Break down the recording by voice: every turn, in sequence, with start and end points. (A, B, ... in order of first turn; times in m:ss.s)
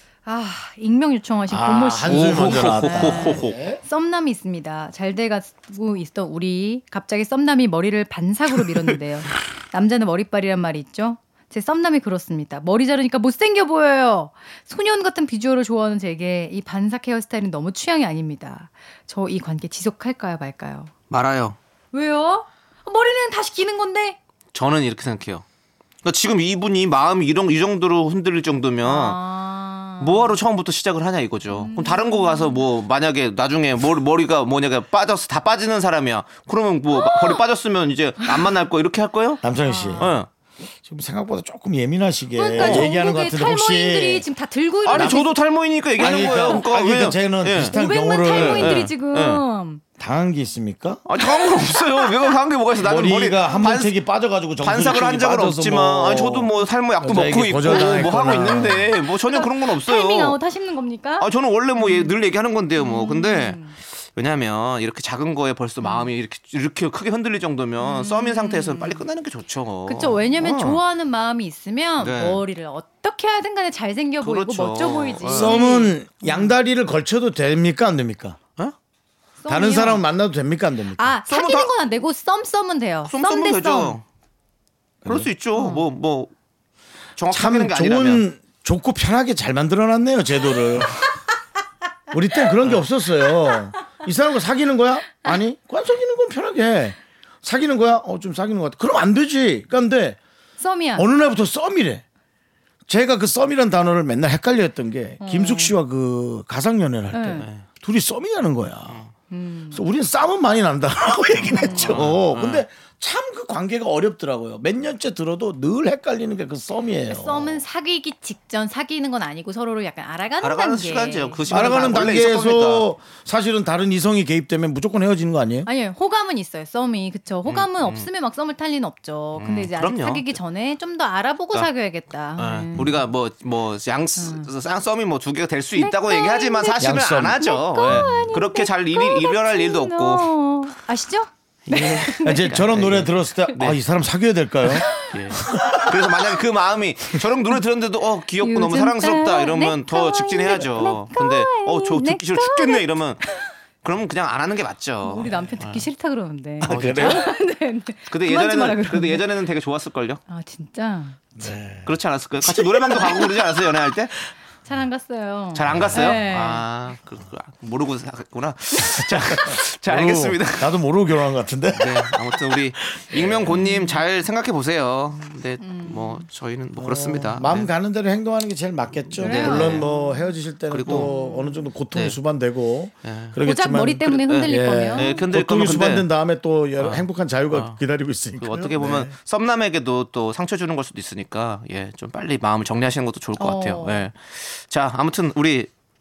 0:00.2-0:20.9 A
0:01.5-0:03.8 B
0:02.0-0:03.6 C
0:21.1-0:21.6 C
0:21.9-0:24.2 A
0:24.5-0:25.4 C
0:26.0-0:29.2 C
0:28.8-0:30.4 A
0:30.0-0:39.4 C
0:31.5-0:32.7 A
0:36.9-0:37.4 A
0:39.4-0:40.1 B
0:39.6-0:40.2 A
0:40.0-0:40.3 C
0:40.8-0:44.3 B
0:42.4-0:45.4 A
0:42.6-0:42.9 C
0:44.8-0:49.4 C
0:44.9-0:45.2 B
0:46.0-0:46.7 A
0:46.0-0:48.9 B
0:47.6-0:49.8 A
0:50.0-0:51.1 B
0:51.1-0:54.0 C
0:51.4-0:52.3 A
0:52.8-0:58.9 B
0:54.6-1:00.4 C
0:57.7-1:02.2 A
1:01.2-1:10.8 C
1:02.8-1:03.8 A
1:05.8-1:06.1 A
1:07.8-1:09.0 A
1:09.9-1:16.5 A
1:12.0-1:12.4 C
1:14.2-1:15.6 C
1:15.3-1:18.4 B
1:19.4-1:20.0 A
1:19.5-1:21.2 B
1:21.0-1:24.0 A
1:21.3-1:21.7 C
1:23.0-1:24.0 C
1:25.0-1:25.3 B
1:25.1-1:26.3 C
1:25.6-1:25.9 A
1:27.2-1:28.2 C
1:27.3-1:31.0 B
1:32.1-1:40.2 B
1:40.6-1:41.1 A
1:41.0-1:42.0 B
1:42.9-1:49.0 B
1:45.2-1:45.7 A
1:47.1-1:47.5 A
1:47.4-1:47.6 C
1:48.9-1:49.1 C
1:49.3-1:49.8 A
1:49.7-1:57.6 B
1:51.3-1:52.6 C
1:51.6-1:52.0 A
1:57.1-2:02.0 A
2:00.4-2:02.9 C
2:01.5-2:05.7 B
2:05.7-2:13.1 A
2:07.5-2:08.1 C
2:09.4-2:10.3 C
2:12.4-2:20.3 C
2:14.2-2:14.5 A
2:15.8-2:22.5 A
2:16.8-2:18.2 B
2:21.7-2:23.8 C
2:22.1-2:26.1 B
2:24.7-2:25.2 A
2:24.9-2:33.2 C
2:28.4-2:33.4 A
2:33.8-2:35.9 C
2:35.0-2:39.3 A
2:35.3-2:35.6 B
2:36.6-2:37.3 C
2:36.6-2:37.3 B
2:38.1-2:40.2 C
2:40.3-2:41.4 A
2:41.4-2:41.9 B
2:41.8-2:44.1 C
2:42.4-2:43.3 B
2:42.9-2:43.3 A
2:44.7-2:46.6 A
2:45.5-2:50.7 C
2:45.7-2:46.2 B
2:49.0-2:53.6 B
2:51.7-2:57.7 C
2:53.5-2:54.0 A
2:55.6-2:56.2 A
2:56.8-3:09.1 B
2:59.2-2:59.9 C
2:59.2-3:00.3 A
3:00.7-3:01.1 C
3:00.9-3:01.7 A
3:03.0-3:03.4 C
3:03.4-3:05.3 A
3:04.0-3:06.1 C
3:06.8-3:07.8 C
3:08.4-3:15.7 C
3:13.4-3:14.0 A